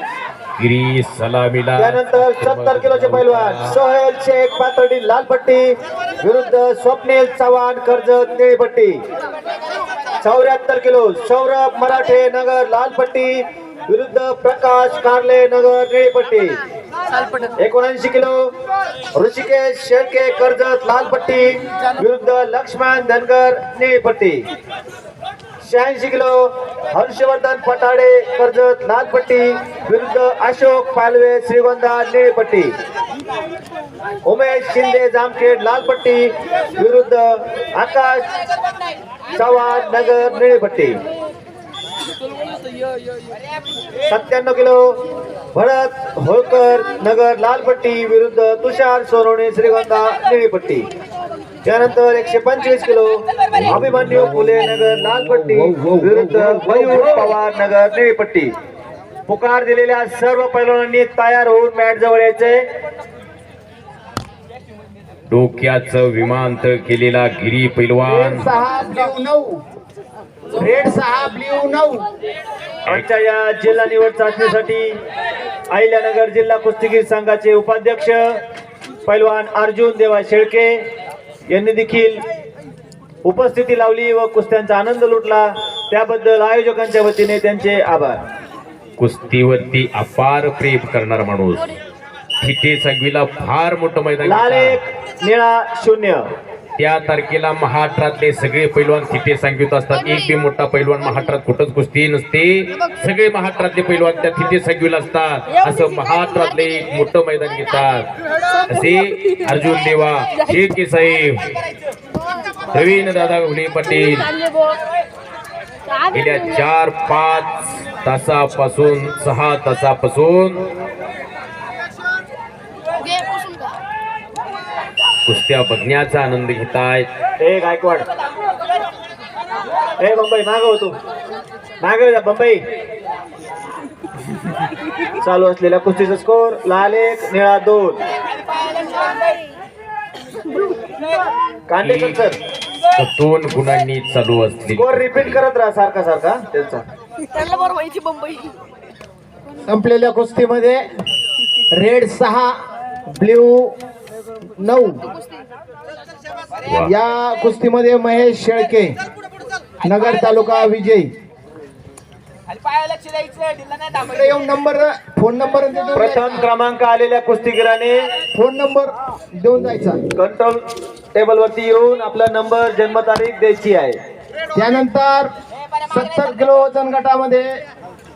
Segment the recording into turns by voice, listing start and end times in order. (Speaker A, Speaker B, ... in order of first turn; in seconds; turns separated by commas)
Speaker A: 0.6-3.8, Speaker B: 1.8-5.7, Speaker B: 6.2-8.9, Speaker B: 10.2-13.3, Speaker B: 13.9-16.6, Speaker B: 17.6-18.4, Speaker B: 19.2-24.4, Speaker B: 25.6-26.4, Speaker B: 26.9-32.7, Speaker B: 34.2-38.3, Speaker B: 39.3-41.0, Speaker B: 44.1-44.8, Speaker B: 45.5-50.9, Speaker B: 51.6-58.5, Speaker C: 53.7-57.3, Speaker B: 59.3-62.6, Speaker A: 65.3-68.5, Speaker C: 68.1-69.6, Speaker C: 70.5-72.0, Speaker B: 72.9-74.9, Speaker B: 75.7-78.3, Speaker B: 79.1-80.8, Speaker B: 81.5-82.2, Speaker B: 83.2-88.2, Speaker A: 89.0-91.8, Speaker A: 92.4-94.8, Speaker B: 94.2-96.3, Speaker A: 96.8-108.1, Speaker A: 108.7-111.6, Speaker A: 112.7-114.3, Speaker D: 114.5-114.8, Speaker A: 116.1-120.6, Speaker D: 123.0-123.8, Speaker A: 125.3-127.1, Speaker B: 127.4-128.1, Speaker B: 130.0-131.0, Speaker B: 131.8-132.6, Speaker B: 135.2-138.0, Speaker D: 138.7-139.4, Speaker B: 141.7-142.4, Speaker A: 141.8-142.2, Speaker A: 143.0-145.4, Speaker B: 144.7-146.8, Speaker D: 147.3-148.6, Speaker C: 149.7-150.8, Speaker C: 151.7-152.5, Speaker C: 153.2-153.8, Speaker C: 154.6-155.1, Speaker A: 156.7-156.9, Speaker C: 156.8-158.9, Speaker C: 159.8-161.1, Speaker D: 162.8-163.7, Speaker C: 163.9-166.5, Speaker B: 166.0-168.1, Speaker C: 168.3-170.1, Speaker B: 170.2-170.6, Speaker B: 171.1-174.0, Speaker C: 174.6-175.3, Speaker C: 175.9-177.6